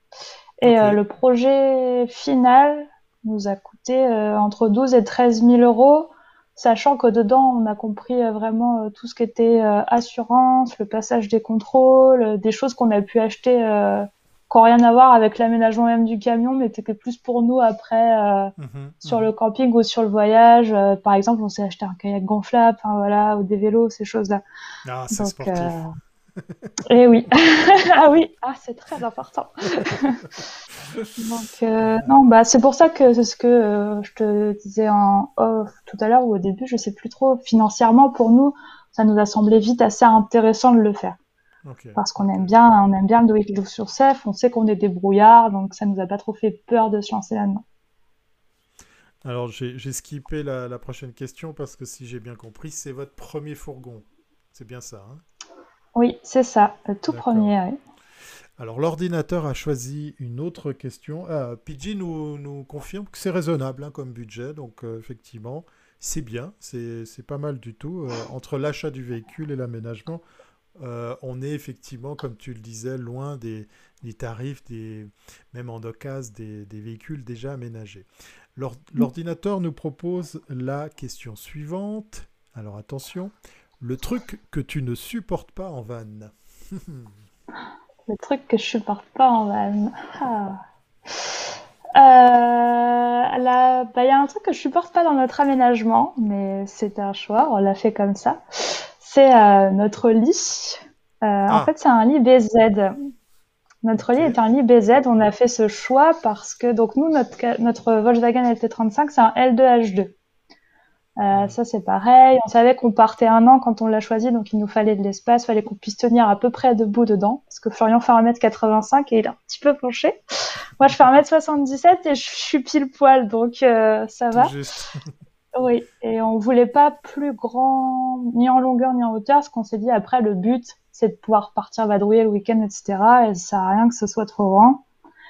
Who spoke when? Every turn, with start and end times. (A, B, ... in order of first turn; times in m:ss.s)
0:00.6-0:24.4 A
0:00.6-0:01.0 B
0:18.6-0:19.3 B
0:24.8-0:25.8 B
0:25.1-0:25.9 A
0:26.4-0:26.7 B
0:26.9-0:30.2 A
0:30.8-0:31.3 B
0:31.2-0:41.2 A
0:31.8-0:32.1 B
0:41.6-0:42.6 B
0:42.0-0:47.6 A
0:49.2-0:55.2 B
0:56.0-0:57.8 A
0:57.1-0:57.5 B
0:58.6-1:10.2 B
1:10.8-1:27.1 B
1:28.1-1:31.3 A
1:32.0-1:42.9 A
1:43.8-1:50.2 A
1:44.0-1:44.4 B
1:51.2-2:04.5 A
1:51.3-1:51.6 B
2:04.3-2:05.1 B
2:05.6-2:14.8 A